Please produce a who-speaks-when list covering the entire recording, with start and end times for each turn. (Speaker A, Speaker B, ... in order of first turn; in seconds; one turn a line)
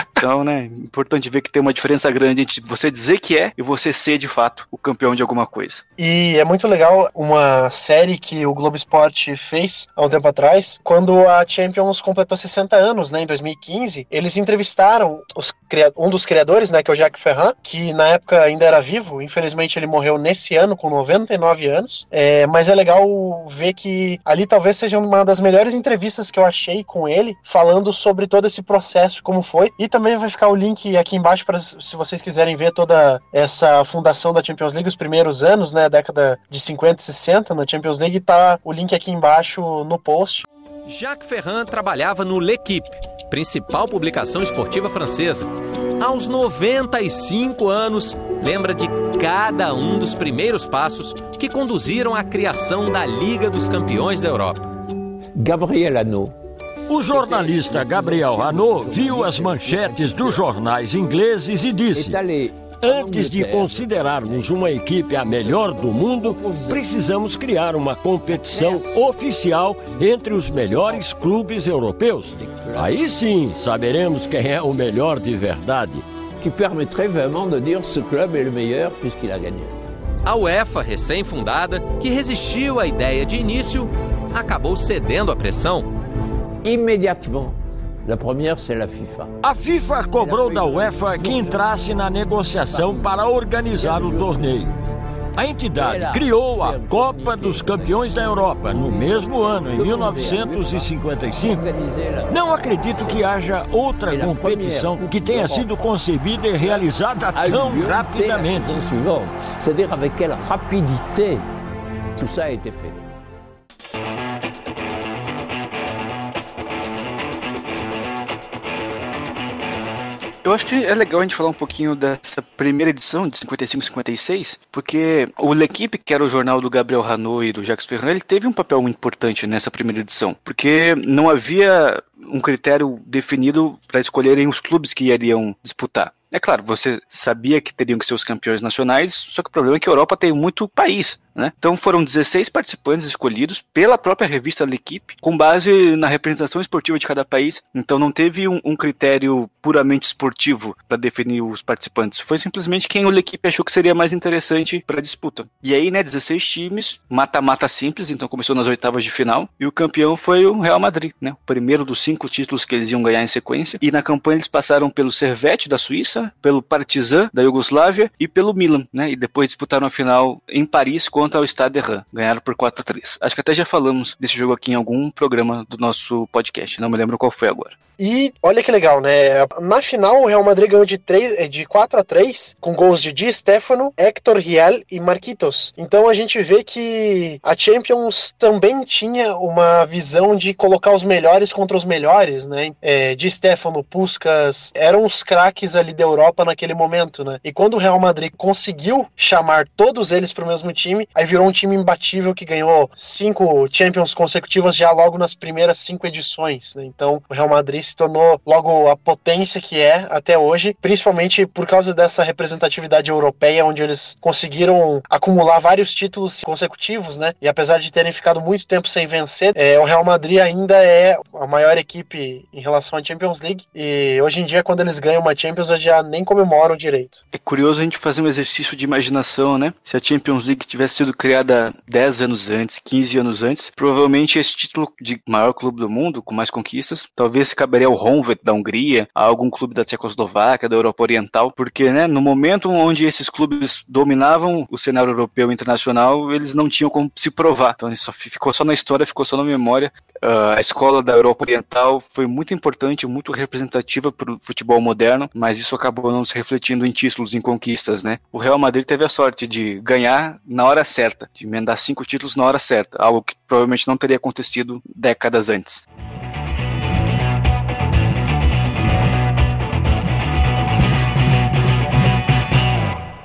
Speaker A: 0.2-5.8
Speaker B: 6.0-40.5
Speaker C: 40.9-54.7
Speaker D: 55.4-56.3
Speaker E: 56.9-76.0
Speaker D: 57.0-60.5
Speaker D: 61.9-66.9
Speaker D: 68.3-69.1
Speaker D: 69.9-71.3
Speaker D: 72.3-73.1
Speaker D: 74.3-74.9
Speaker D: 76.4-79.8
Speaker C: 80.2-85.9
Speaker D: 86.6-89.3
Speaker E: 89.4-94.8
Speaker D: 90.1-91.9
Speaker D: 92.6-94.8
Speaker E: 95.4-101.6
Speaker D: 95.7-103.3
Speaker E: 102.3-108.9
Speaker D: 104.1-105.7
Speaker D: 106.6-111.5
Speaker D: 112.2-113.0
Speaker A: 120.4-177.8
Speaker B: 178.0-227.2
Speaker A: 227.3-265.8